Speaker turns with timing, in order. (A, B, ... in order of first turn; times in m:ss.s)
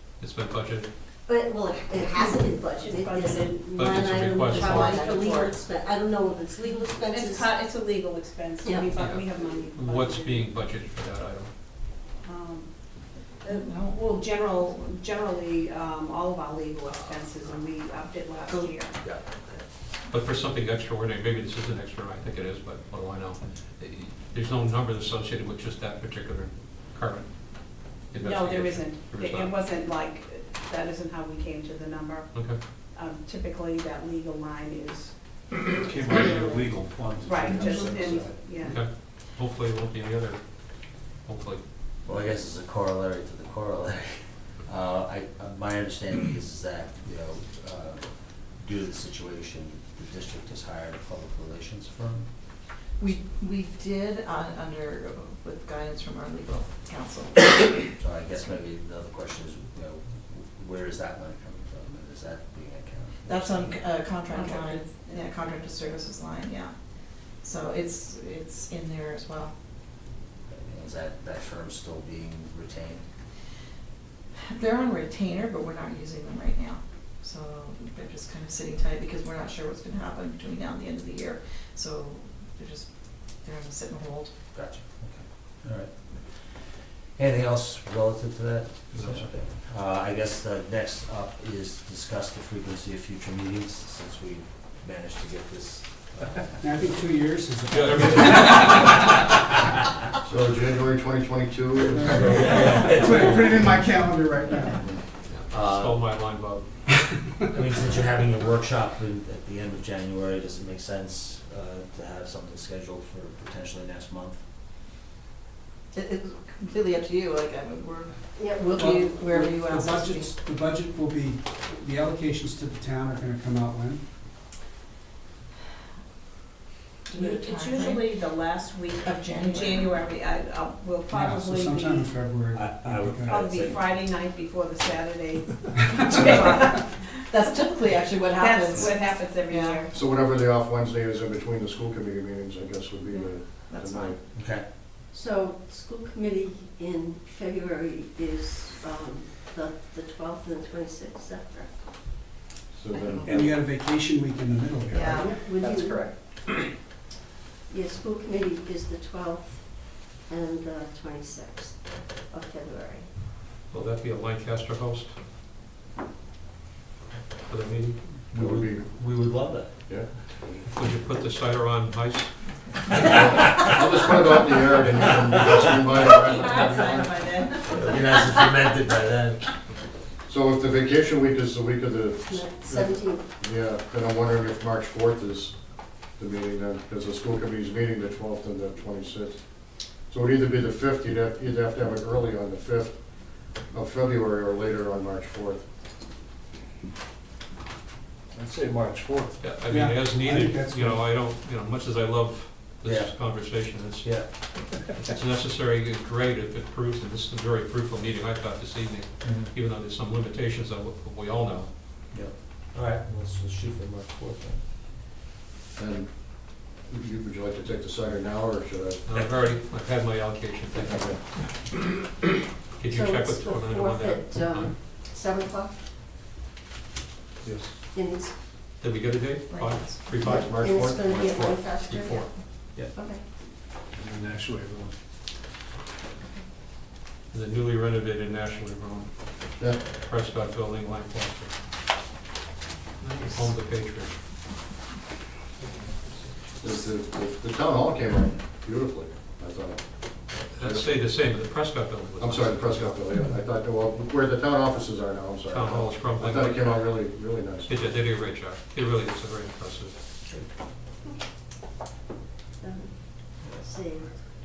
0:00.2-0:00.9 A
0:01.3-0:07.6 B
0:02.2-0:03.7 C
0:03.7-0:05.3 A
0:04.6-0:05.2 C
0:05.2-0:05.5 D
0:07.0-0:10.5 C
0:08.6-0:08.9 B
0:08.9-0:11.5 A
0:12.2-0:19.0 C
0:13.5-0:14.0 D
0:19.0-0:19.7 E
0:20.1-0:29.6 A
0:28.2-0:35.2 C
0:32.3-0:32.6 A
0:35.8-0:37.8 F
0:37.2-0:38.8 C
0:38.6-0:41.6 A
0:42.0-0:52.3 E
0:53.0-0:57.4 D
0:58.0-1:03.8 E
1:03.3-1:09.5 D
1:04.3-1:05.4 C
1:10.5-1:13.0 E
1:14.5-1:24.3 D
1:24.5-1:36.6 E
1:28.9-1:29.3 A
1:36.6-1:39.1 G
1:37.7-1:39.1 A
1:40.2-1:42.6 H
1:41.9-1:44.8 G
1:42.0-1:43.8 E
1:45.3-1:46.7 A
1:45.5-1:46.1 E
1:47.5-1:54.4 E
1:55.9-1:58.1 D
1:58.4-1:59.1 B
1:58.8-2:00.3 D
1:58.8-2:04.0 G
2:07.1-2:08.2 D
2:07.1-2:12.1 C
2:09.0-2:10.0 D
2:11.1-2:13.4 G
2:12.5-2:13.8 E
2:13.3-2:17.2 C
2:15.7-2:16.8 G
2:15.9-2:16.5 D
2:17.3-2:19.8 D
2:18.4-2:19.9 C
2:19.9-2:24.2 H
2:23.7-2:24.1 D
2:24.3-2:24.7 E
2:25.1-2:31.9 B
2:32.7-2:33.4 H
2:33.0-2:33.5 B
2:33.3-2:35.5 G
2:34.9-2:35.3 D
2:35.1-2:36.2 B
2:37.7-2:43.2 B
2:43.7-2:45.2 A
2:47.5-2:48.0 A
2:48.3-2:50.7 E
2:48.3-2:48.8 H
2:49.9-2:50.2 H
2:50.7-2:52.3 A
2:53.0-2:57.3 H
2:55.9-2:57.5 D
2:57.2-2:57.6 C
2:57.6-2:59.5 E
3:00.3-3:05.6 H
3:02.3-3:03.3 B
3:06.2-3:09.4 H
3:10.1-3:13.0 H
3:13.7-3:15.6 H
3:18.5-3:19.3 F
3:19.4-3:31.8 A
3:19.6-3:21.1 G
3:22.8-3:23.2 E
3:24.0-3:24.3 E
3:29.2-3:29.5 E
3:32.1-3:34.6 E
3:35.8-3:39.1 H
3:39.0-3:41.2 A
3:40.7-3:41.2 H
3:42.8-3:44.7 A
3:42.9-3:45.8 B
3:47.9-3:48.4 B
3:48.8-3:50.6 A
3:49.5-3:50.1 D
3:50.2-3:51.7 H
3:50.2-3:53.2 B
3:51.8-3:52.3 A
3:54.0-3:54.9 F
3:57.3-4:01.5 A
3:59.6-3:59.8 H
4:03.0-4:04.1 A
4:06.6-4:11.0 H
4:10.6-4:13.2 A
4:12.2-4:17.8 H
4:15.5-4:17.0 A
4:17.7-4:20.0 A
4:22.6-4:24.1 B